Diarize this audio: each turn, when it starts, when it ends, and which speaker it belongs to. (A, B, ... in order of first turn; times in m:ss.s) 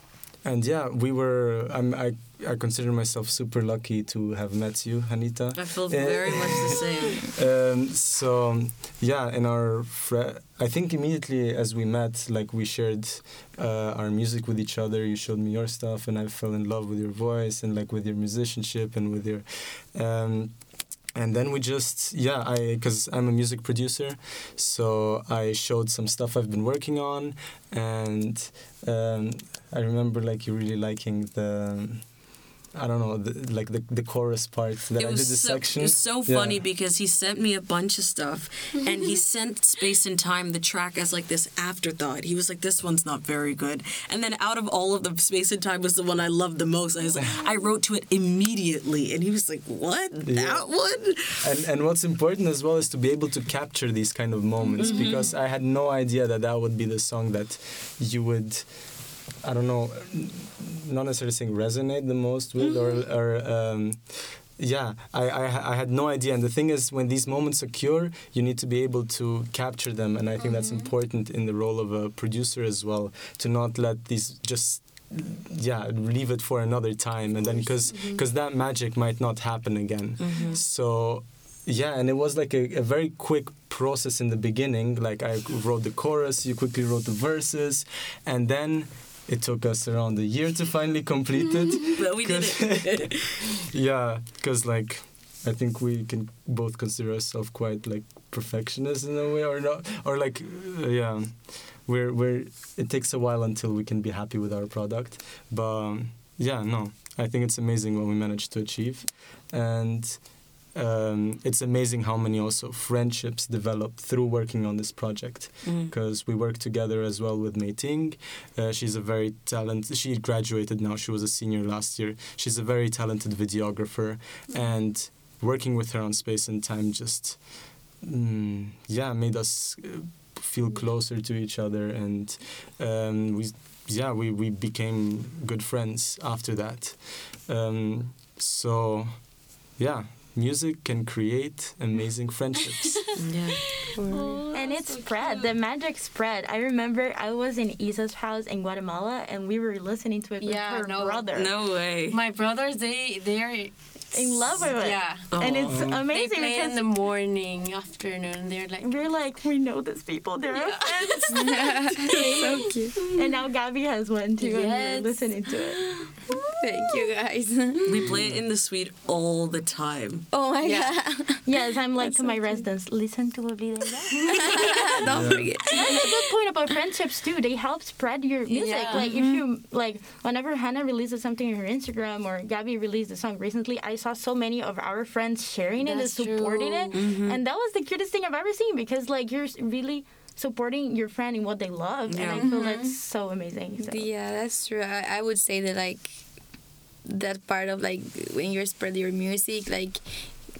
0:00.4-0:36.6 A
0:05.6-0:07.3 B
0:35.0-0:51.5 B
0:47.2-0:47.4 A
0:50.2-2:23.2 A
0:54.8-0:55.3 B
1:10.4-1:10.9 C
1:17.4-1:18.2 C
1:20.2-1:20.6 B
1:32.0-1:33.5 B
1:55.6-1:55.9 B
2:23.2-2:25.5 B
2:24.0-2:24.4 C
2:24.5-2:31.5 D
2:30.4-2:31.3 C
2:31.4-2:32.2 B
2:32.1-2:35.3 C
2:34.1-2:36.9 D
2:35.3-2:35.8 B
2:35.6-2:36.0 A
2:36.0-2:39.0 C
2:38.8-2:45.8 D
2:40.5-2:41.6 C
2:41.3-2:43.0 E
2:42.1-2:42.4 C
2:44.4-2:45.4 C
2:46.6-2:48.1 E
2:47.9-2:50.3 B
2:48.0-2:48.4 A
2:50.3-2:51.5 E
2:50.6-2:50.9 C
2:51.4-2:54.9 D
2:52.0-2:52.6 E
2:54.3-2:56.1 E
2:55.1-2:55.6 A
2:55.6-3:14.1 D
2:58.5-2:59.1 C
2:58.9-2:59.4 E
3:05.8-3:07.1 C
3:06.9-3:07.4 B
3:12.1-3:12.5 B
3:12.3-3:13.0 C
3:13.8-3:16.3 E
3:17.0-3:20.3 E